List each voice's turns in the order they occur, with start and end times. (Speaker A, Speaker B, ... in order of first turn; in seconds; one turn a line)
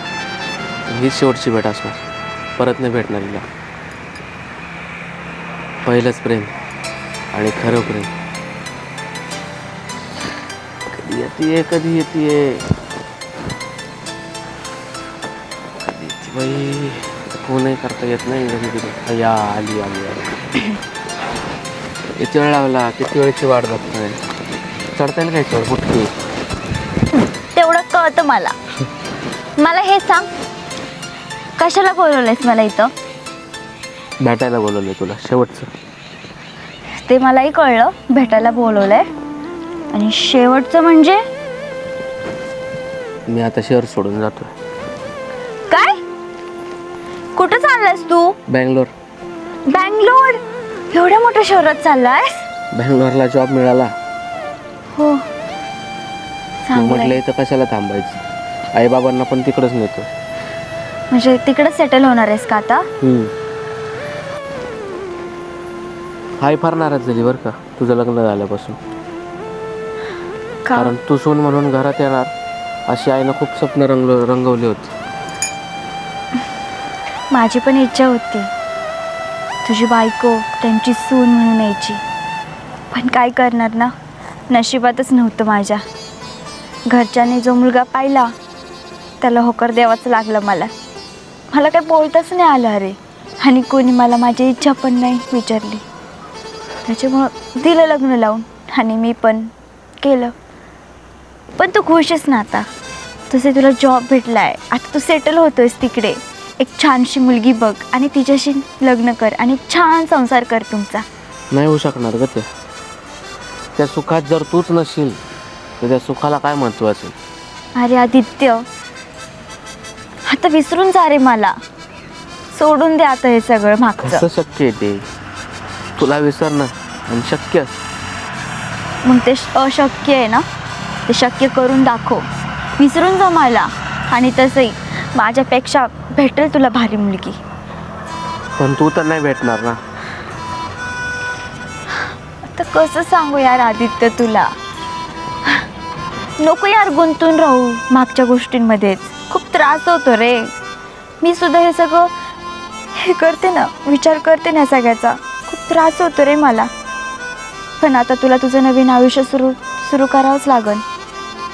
Speaker A: 0.9-2.0
Speaker A: 2.6-3.5
Speaker A: 5.8-6.6
Speaker A: 7.3-8.1
Speaker A: 10.9-12.7
Speaker A: 15.8-20.4
Speaker A: 22.2-24.2
Speaker A: 24.9-26.1
Speaker B: 27.5-28.6
Speaker B: 29.6-30.3
Speaker B: 31.6-32.9
Speaker A: 34.2-35.7
Speaker B: 37.0-39.1
Speaker B: 39.9-41.2
Speaker A: 43.3-44.5
Speaker B: 45.7-46.0
Speaker B: 47.4-48.4
Speaker A: 48.5-48.9
Speaker B: 49.7-50.4
Speaker B: 50.9-52.5
Speaker A: 52.7-53.9
Speaker B: 54.9-55.2
Speaker B: 56.6-57.2
Speaker A: 56.7-58.2
Speaker A: 58.7-60.1
Speaker B: 61.1-62.9
Speaker A: 63.0-63.3
Speaker A: 66.4-68.8
Speaker B: 70.7-70.9
Speaker A: 70.8-72.3
Speaker A: 72.9-74.9
Speaker B: 77.3-78.5
Speaker B: 79.6-82.0
Speaker B: 82.9-83.9
Speaker B: 84.5-85.8
Speaker B: 86.9-88.3
Speaker B: 89.2-90.7
Speaker B: 91.5-95.8
Speaker B: 96.8-100.3
Speaker B: 101.6-102.7
Speaker B: 103.3-111.1
Speaker A: 111.5-112.5
Speaker A: 113.8-115.2
Speaker A: 115.8-117.2
Speaker B: 117.8-118.7
Speaker B: 120.2-121.6
Speaker B: 122.5-124.3
Speaker A: 124.0-125.1
Speaker A: 126.0-127.8
Speaker B: 129.1-130.4
Speaker B: 131.1-132.3
Speaker B: 132.8-137.4
Speaker A: 138.6-139.8
Speaker B: 142.4-144.5
Speaker B: 146.4-150.5
Speaker B: 151.2-152.1
Speaker B: 152.9-156.7
Speaker B: 157.8-160.8